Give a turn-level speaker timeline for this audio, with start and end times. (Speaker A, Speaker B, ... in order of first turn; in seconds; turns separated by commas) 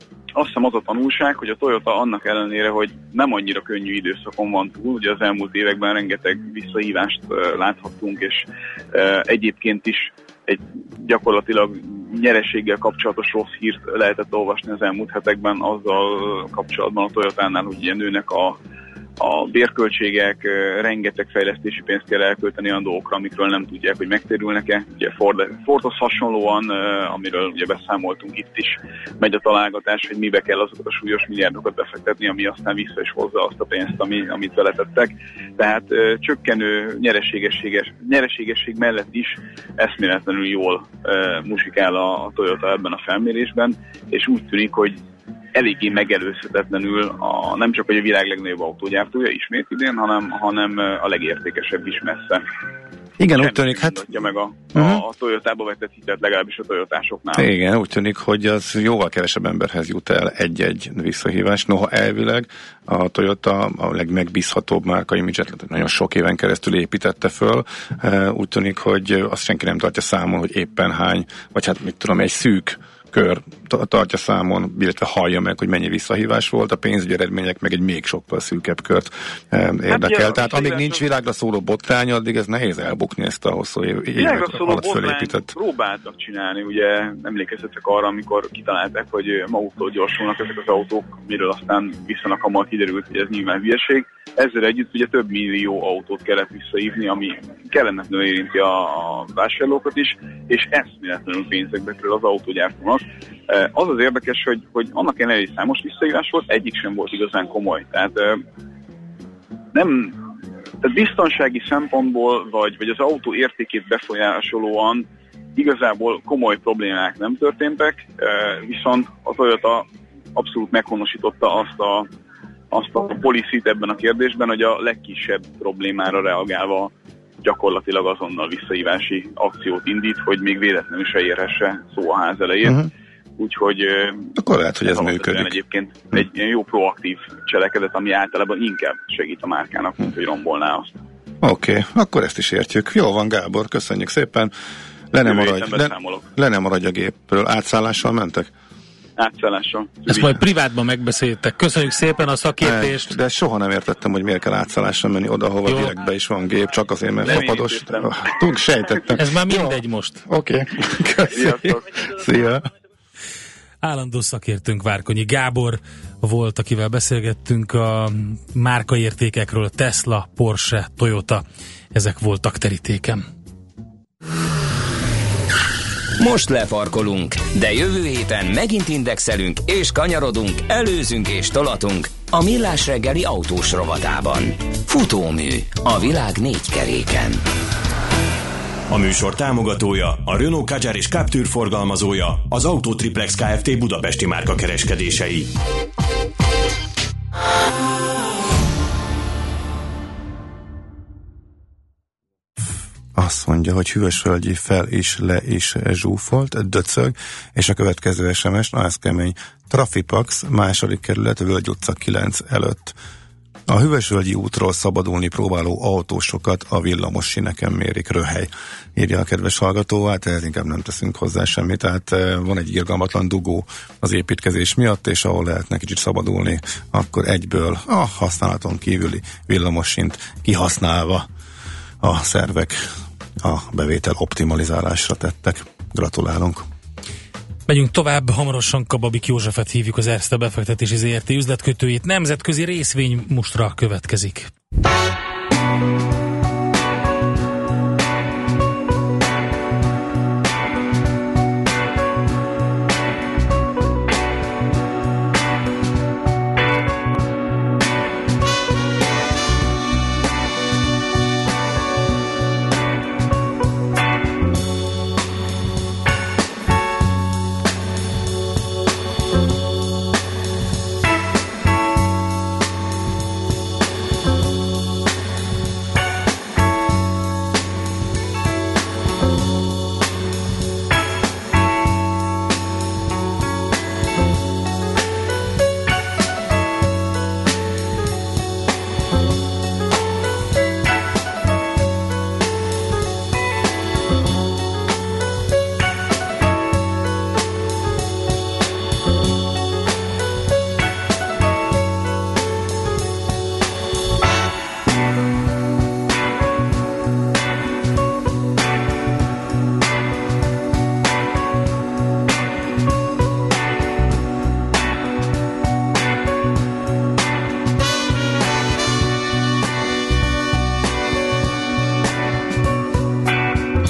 Speaker A: 0.3-18.6, Speaker A: 19.2-45.0, Speaker A: 45.5-52.4, Speaker B: 53.2-55.0, Speaker A: 53.4-57.5, Speaker B: 57.4-85.5, Speaker A: 79.9-81.0, Speaker A: 84.2-108.4, Speaker A: 109.7-110.2, Speaker A: 110.8-115.0, Speaker A: 115.6-122.1, Speaker A: 122.7-126.9, Speaker A: 127.4-134.3, Speaker B: 134.4-135.6, Speaker A: 134.9-141.0, Speaker B: 141.4-144.5, Speaker B: 145.1-148.5, Speaker A: 145.2-146.3, Speaker A: 149.2-150.4, Speaker C: 150.1-153.2, Speaker B: 152.6-162.7, Speaker C: 155.7-155.9, Speaker A: 157.2-158.3, Speaker C: 159.2-160.2, Speaker A: 161.3-161.8, Speaker C: 163.8-173.2, Speaker D: 176.2-187.4, Speaker E: 188.9-195.5, Speaker B: 203.2-213.0, Speaker B: 213.7-231.3, Speaker B: 232.0-232.8, Speaker B: 233.4-236.7, Speaker C: 237.7-244.5